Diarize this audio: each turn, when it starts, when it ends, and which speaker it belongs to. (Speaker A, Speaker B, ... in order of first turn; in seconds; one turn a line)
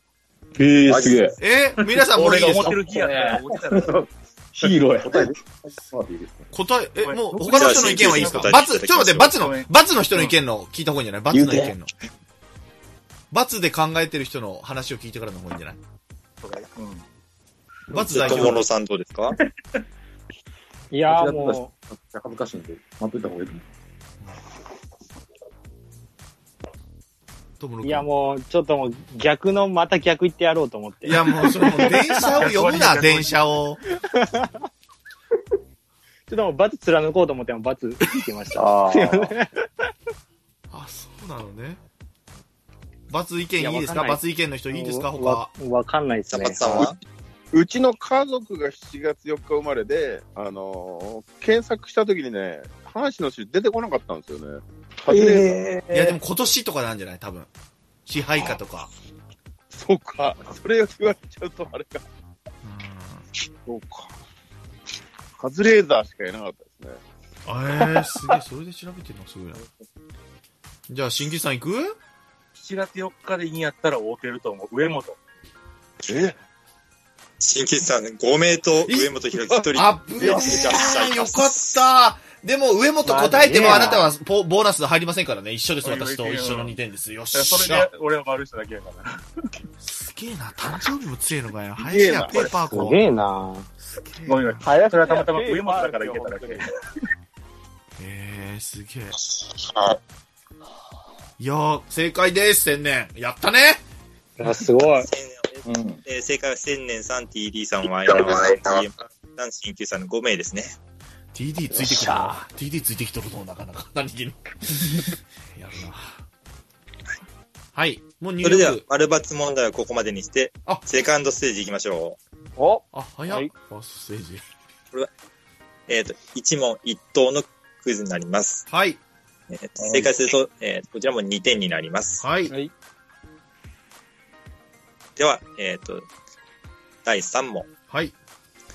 Speaker A: 0.6-1.4
Speaker B: 0.9-1.2
Speaker C: 1.4-2.8
Speaker D: 2.1-4.0
Speaker A: 2.6-5.3
Speaker E: 5.0-6.5
Speaker C: 6.5-11.9
Speaker D: 7.0-10.4
Speaker B: 7.5-9.3
Speaker A: 11.3-11.8
Speaker C: 13.3-15.8
Speaker D: 16.4-17.0
Speaker C: 17.9-18.7
Speaker A: 18.0-18.6
Speaker B: 18.1-19.4
Speaker F: 20.9-21.7
Speaker E: 21.1-23.6
Speaker C: 27.6-28.1
Speaker F: 27.8-32.3
Speaker C: 31.0-33.8
Speaker D: 32.1-33.4
Speaker F: 34.1-34.5
Speaker F: 36.3-39.5
Speaker A: 38.6-39.3
Speaker C: 40.7-41.8
Speaker C: 43.1-45.5
Speaker F: 43.6-46.9
Speaker B: 46.3-47.0
Speaker G: 47.5-55.6
Speaker A: 55.1-56.2
Speaker C: 55.9-57.5
Speaker C: 58.1-58.9
Speaker G: 59.7-62.0
Speaker C: 62.6-63.3
Speaker G: 63.6-64.1
Speaker G: 65.4-67.0
Speaker C: 67.5-69.6
Speaker C: 70.9-72.0
Speaker D: 72.5-75.2
Speaker B: 77.4-81.8
Speaker C: 78.9-79.2
Speaker C: 79.7-87.9
Speaker A: 80.2-80.6
Speaker H: 83.1-84.0
Speaker F: 83.4-83.9
Speaker A: 83.5-83.9
Speaker D: 85.8-86.7
Speaker D: 87.3-89.2
Speaker C: 89.8-93.0
Speaker G: 91.8-92.5
Speaker D: 92.3-92.6
Speaker F: 92.7-93.7
Speaker C: 93.8-94.7
Speaker D: 94.3-96.7
Speaker H: 94.7-96.7
Speaker C: 98.0-99.2
Speaker C: 101.4-103.8
Speaker F: 104.4-105.1
Speaker B: 105.0-110.8
Speaker E: 105.7-106.0
Speaker C: 111.3-116.3
Speaker A: 111.7-112.4
Speaker C: 117.8-118.8
Speaker B: 118.4-122.2
Speaker H: 122.6-123.5
Speaker C: 122.9-124.4
Speaker B: 125.9-128.7
Speaker C: 128.7-129.0
Speaker B: 129.5-132.2
Speaker C: 132.2-132.5
Speaker B: 135.2-136.1
Speaker B: 137.1-137.7
Speaker C: 137.9-138.2